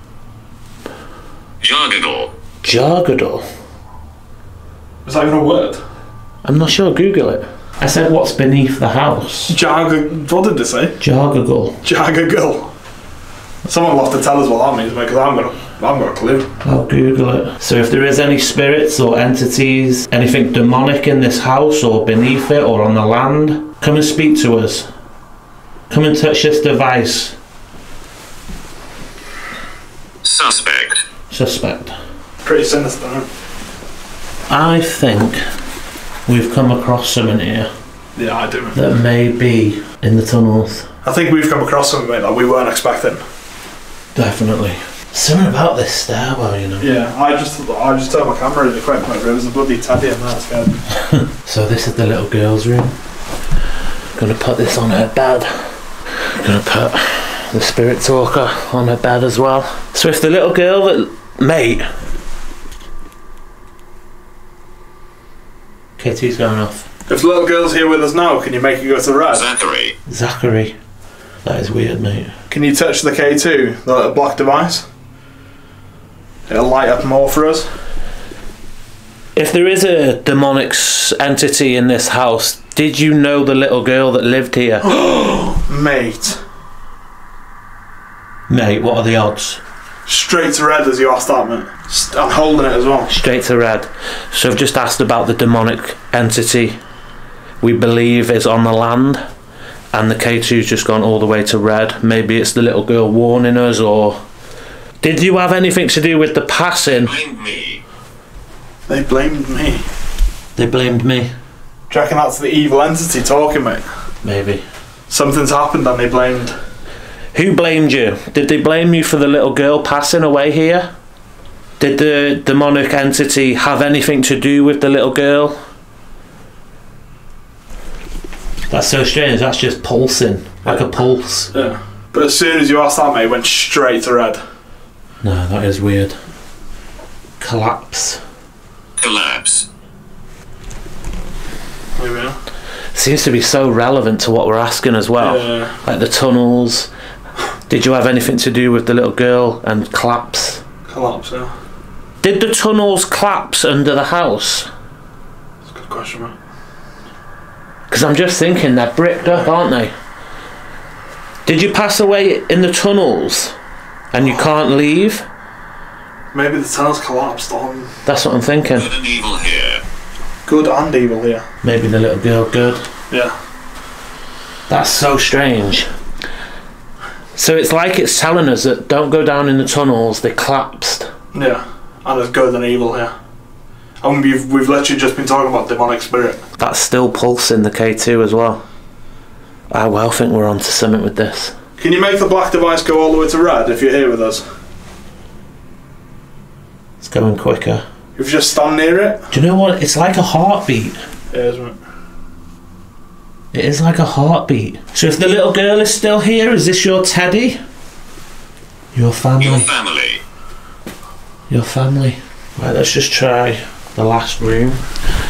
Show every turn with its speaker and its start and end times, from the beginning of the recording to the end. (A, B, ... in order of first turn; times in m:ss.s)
0:01.6-0:02.3 A
0:02.6-0:03.5 B
0:05.0-0:05.8 C
0:06.4-0:09.6 B
0:09.5-0:11.0 C
0:11.0-0:11.8 B
0:11.8-0:12.7 C
0:13.6-0:16.5 C
0:16.6-0:24.9 B
0:25.9-0:27.4 B
0:30.2-0:31.0 A
0:31.3-0:32.0 B
0:32.4-0:33.3 C
0:34.5-0:35.4 B
0:36.3-0:37.7 B
0:38.2-0:38.8 C
0:38.7-0:40.9 B
0:41.0-0:43.2 C
0:44.2-0:46.9 B
0:46.8-0:50.8 C
0:51.4-0:53.0 B
0:54.2-1:01.9 B
1:06.0-1:06.9 B
1:07.1-1:09.5 C
1:09.3-1:10.0 A
1:10.1-1:10.8 B
1:11.4-1:12.4 B
1:12.5-1:14.9 C
1:16.5-1:17.7 C
1:19.4-1:24.9 B
1:24.8-1:26.4 C
1:28.5-1:29.6 B
1:30.1-1:33.1 C
1:33.1-1:36.8 B
1:37.6-1:39.2 B
1:39.9-1:44.2 B
1:45.0-1:47.1 B
1:47.0-1:47.8 A
1:48.9-1:49.9 C
1:50.6-1:51.3 B
1:51.9-1:53.8 C
1:54.2-1:54.6 B
1:55.1-1:56.6 C
1:57.3-2:00.9 B
2:01.8-2:05.6 B
2:08.7-2:11.5 B
2:11.5-2:14.4 C
2:15.2-2:16.2 B
2:17.4-2:18.2 B
2:19.0-2:19.7 A
2:22.0-2:22.4 C
2:22.9-2:26.9 B
2:25.2-2:25.8 C
2:27.7-2:30.6 B
2:30.9-2:31.5 C
2:32.2-2:34.7 B
2:35.7-2:36.4 C
2:37.9-2:39.9 B
2:39.2-2:39.5 C
2:41.5-2:43.6 B
2:44.1-2:45.2 B
2:46.3-2:47.9 C
2:48.0-2:48.9 B
2:48.8-2:49.8 A
2:50.5-2:51.5 C
2:51.6-2:52.8 B
2:53.1-2:53.4 C
2:54.7-2:55.9 B
2:57.4-3:01.1 B
3:01.3-3:03.1 C
3:04.0-3:06.4 C
3:06.6-3:08.6 B
3:09.7-3:11.6 B
3:11.8-3:14.5 C
3:17.0-3:17.8 B
3:18.2-3:19.3 C
3:19.3-3:21.0 B
3:21.3-3:21.8 C
3:23.5-3:27.6 B
3:28.9-3:29.7 B
3:29.4-3:30.2 A
3:31.5-3:34.8 B